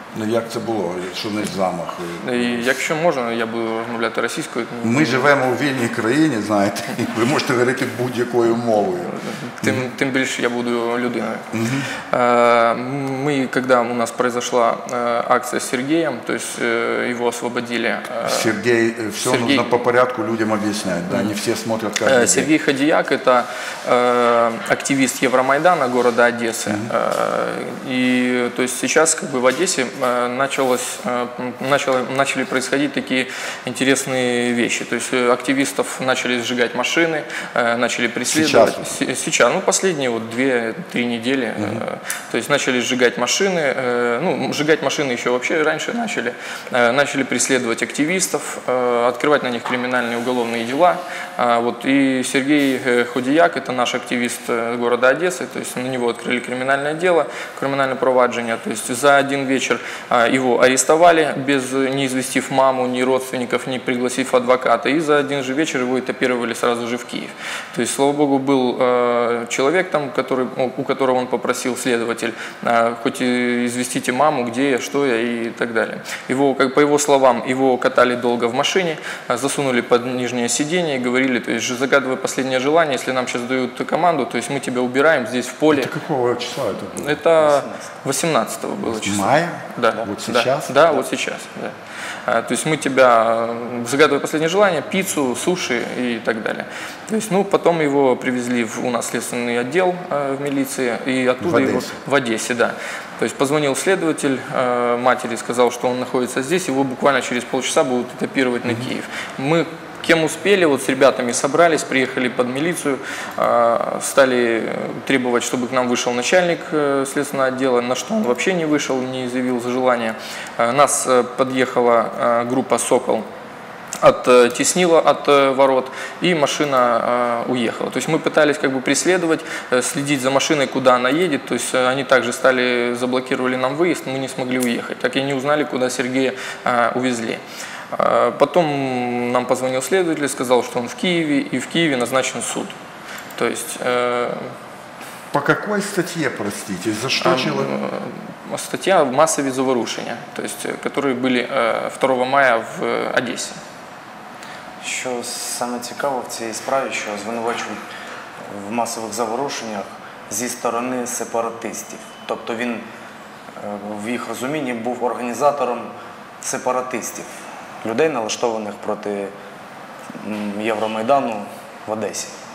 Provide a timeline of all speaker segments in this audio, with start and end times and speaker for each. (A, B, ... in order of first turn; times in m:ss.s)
0:00.1-0:02.7 A
0:02.2-0:05.3 B
0:04.8-0:09.9 A
0:08.7-0:11.5 B
0:11.5-0:11.9 A
0:12.1-0:18.6 B
0:18.2-0:22.5 A
0:19.2-0:19.8 B
0:22.0-1:25.9 B
0:38.3-0:39.0 A
0:41.6-0:41.8 A
1:25.7-1:27.2 A
1:26.9-1:31.7 B
1:27.4-1:27.8 C
1:28.9-1:30.8 A
1:32.3-2:03.2 B
1:41.4-1:42.0 A
2:04.0-2:22.7 B
2:23.4-2:24.5 B
2:25.3-2:27.7 A
2:27.2-2:33.6 B
2:34.8-2:37.8 C
2:38.5-2:42.8 C
2:43.6-2:45.9 C
2:46.4-2:47.3 C
2:47.8-2:49.3 C
2:50.2-2:52.3 C